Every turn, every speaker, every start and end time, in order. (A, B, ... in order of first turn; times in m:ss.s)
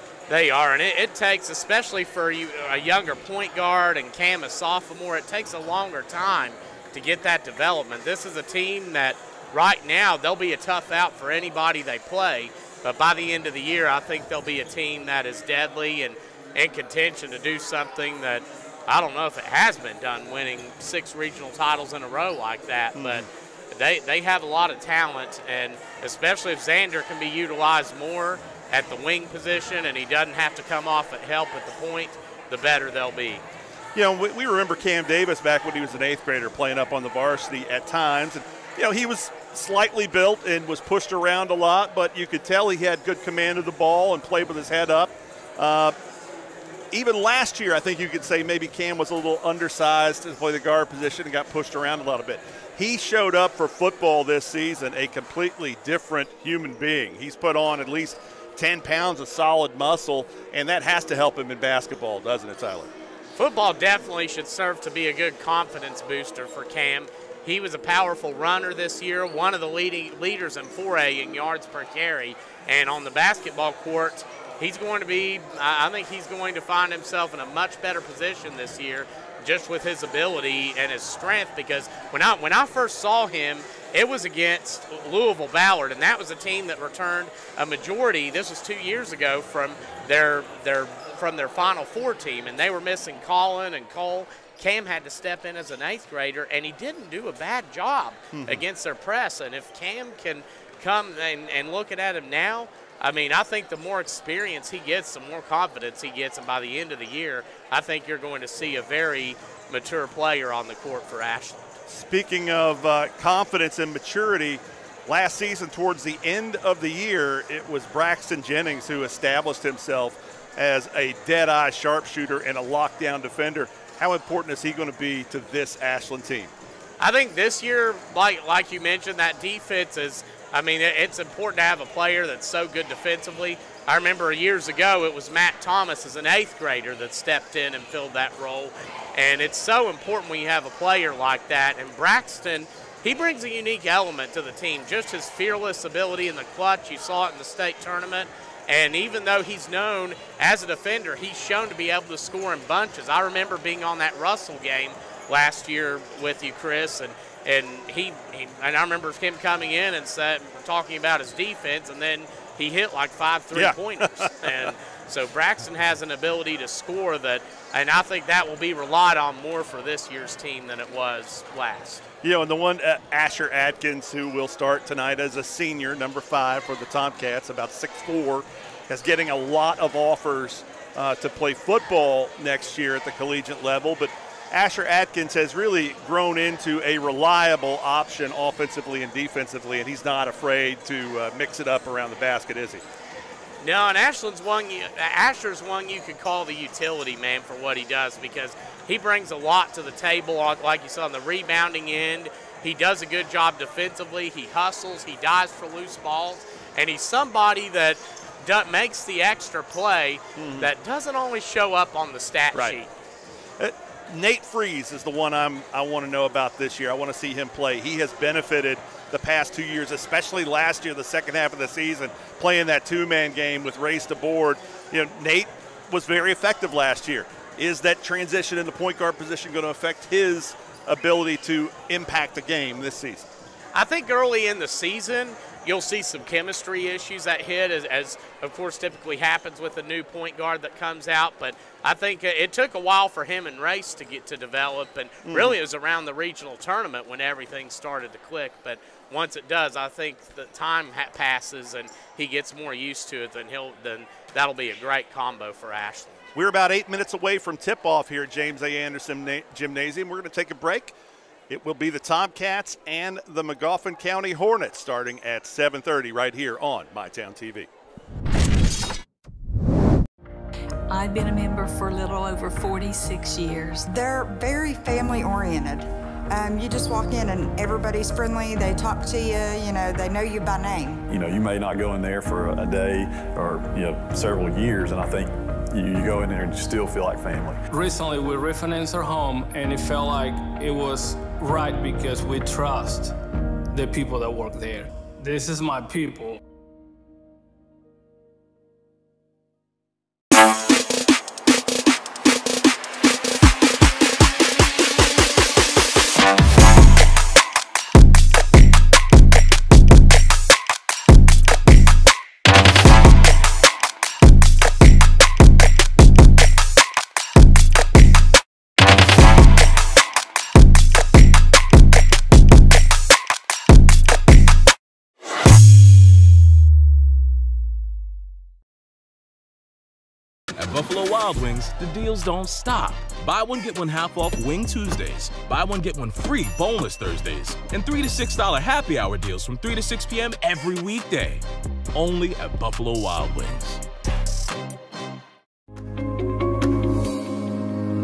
0:00.3-0:33.4 A
0:23.0-0:23.3 B
0:34.0-0:46.0 B
0:46.9-1:02.9 B
1:03.4-1:51.6 A
1:38.3-1:38.6 B
1:51.9-2:06.5 B
2:07.0-2:52.1 A
2:43.5-2:44.7 B
2:52.2-3:12.8 B
3:13.6-3:32.9 A
3:30.4-3:30.7 B
3:32.5-3:32.8 B
3:33.6-3:53.3 B
3:53.7-4:16.3 A
4:05.2-4:05.6 B
4:16.4-4:21.0 B
4:21.5-4:27.7 B
4:30.9-4:33.9 C
4:33.9-4:41.0 D
4:41.1-4:47.6 E
4:47.7-4:53.2 F
4:53.7-4:56.4 F
5:30.6-5:43.8 G